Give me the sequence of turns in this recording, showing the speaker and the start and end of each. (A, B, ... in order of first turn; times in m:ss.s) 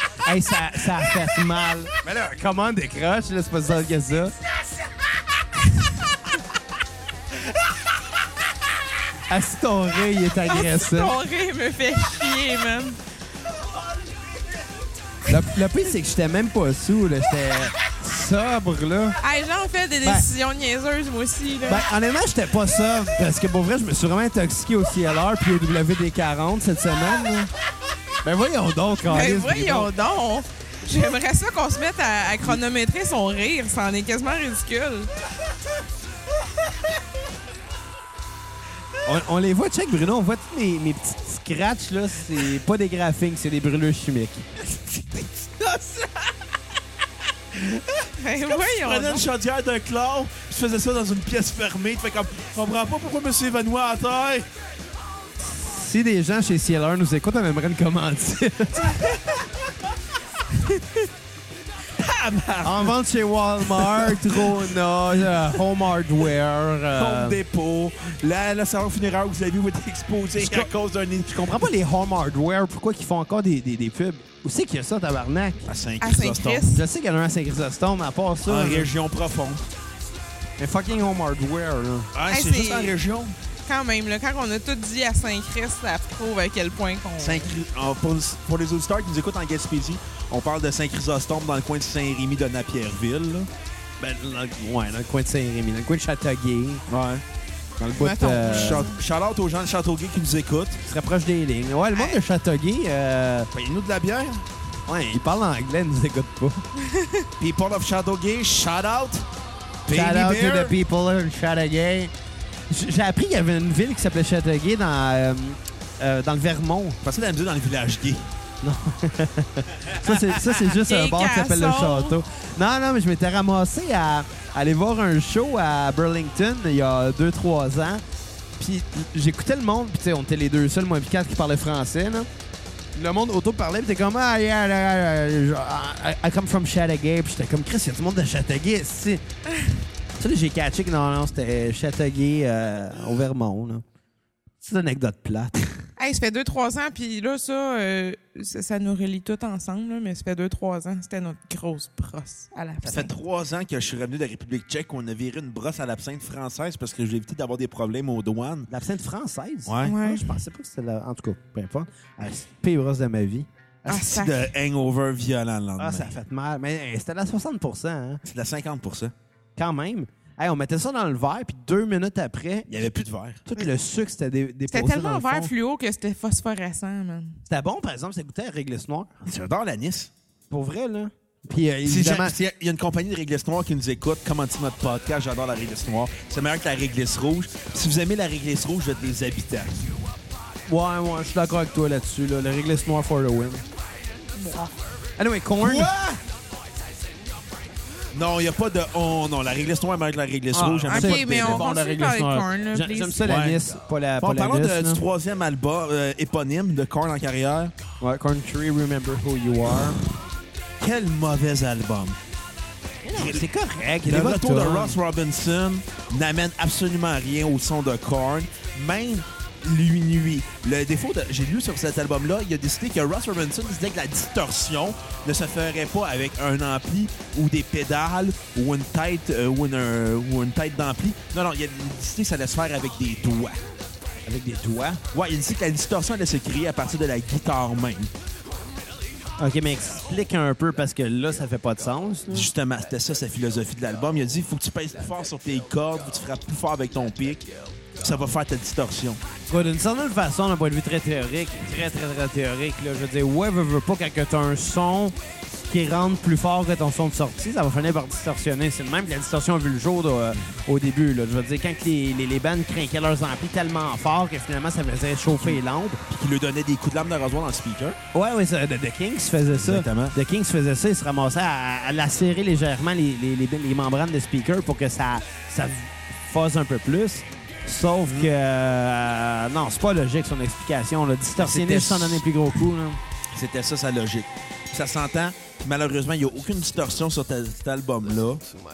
0:00.2-0:04.4 A
0:09.3-0:11.2 A
0:10.5-0:13.0 B
0:15.3-0:19.2 A
0:19.2-0:21.9 B
0:21.7-0:27.5 A
0:28.2-0:29.9 A
0:29.1-0:35.1 B
0:39.0-0:44.5 A
0:44.9-0:46.0 C
0:47.5-0:54.5 C
0:48.2-0:49.3 B
0:55.4-0:59.2 A
1:02.0-1:03.0 C
1:02.6-1:07.4 A
1:03.7-1:04.7 C
1:06.9-1:11.6 C
1:10.4-1:10.7 A
1:11.3-1:15.7 A
1:15.7-1:16.6 C
1:16.0-1:16.8 B
1:16.7-1:18.9 A
1:18.5-1:19.7 C
1:20.6-1:22.1 A
1:22.1-1:23.4 C
1:22.3-1:23.0 B
1:23.7-1:27.5 B
1:27.2-1:33.5 C
1:34.0-1:36.8 A
1:36.9-1:37.2 C
1:37.8-1:38.9 A
1:38.0-1:39.0 B
1:38.4-1:40.8 C
1:40.8-1:43.5 A
1:43.5-1:44.4 C
1:44.9-1:46.6 A
1:46.8-1:47.3 B
1:47.4-1:49.3 C
1:49.9-1:50.7 C
1:49.9-1:52.1 A
1:52.7-1:57.0 A
1:57.0-1:58.3 C
1:58.6-2:08.0 A
1:59.9-2:00.2 C
2:00.6-2:02.2 B
2:08.6-2:12.3 A
2:13.0-2:19.2 A
2:20.2-2:23.8 A
2:24.6-2:25.8 A
2:26.0-2:33.1 B
2:32.8-2:38.7 C
2:38.7-2:43.5 A
2:39.7-2:40.0 C
2:39.8-2:40.3 B
2:43.9-2:46.2 C
2:43.9-2:44.5 B
2:45.8-2:48.2 A
2:48.2-2:49.1 C
2:49.6-2:55.5 A
2:52.7-2:53.5 C
2:54.7-2:57.4 B
2:57.5-2:59.1 A
2:59.2-3:00.1 C
3:00.5-3:02.4 A
3:01.8-3:09.8 C
3:10.7-3:13.6 A
3:14.4-3:14.7 B
3:15.2-3:15.9 A
3:15.6-3:16.2 C
3:18.1-3:21.6 C
3:20.5-3:25.0 A
3:20.9-3:23.2 B
3:23.2-3:23.6 C
3:24.2-3:27.7 C
3:28.0-3:30.0 A
3:30.8-3:32.2 C
3:33.1-3:35.0 A
3:33.1-3:33.4 C
3:34.1-3:53.6 C
3:54.2-3:55.0 A
3:55.1-3:58.1 C
3:59.4-4:02.5 A
4:02.3-4:09.2 C
4:09.5-4:15.2 A
4:15.7-4:26.0 A
4:25.4-4:28.0 C
4:28.1-4:43.0 A
4:29.6-4:30.2 C
4:38.0-4:38.3 C
4:41.4-4:42.2 C
4:43.3-4:48.4 C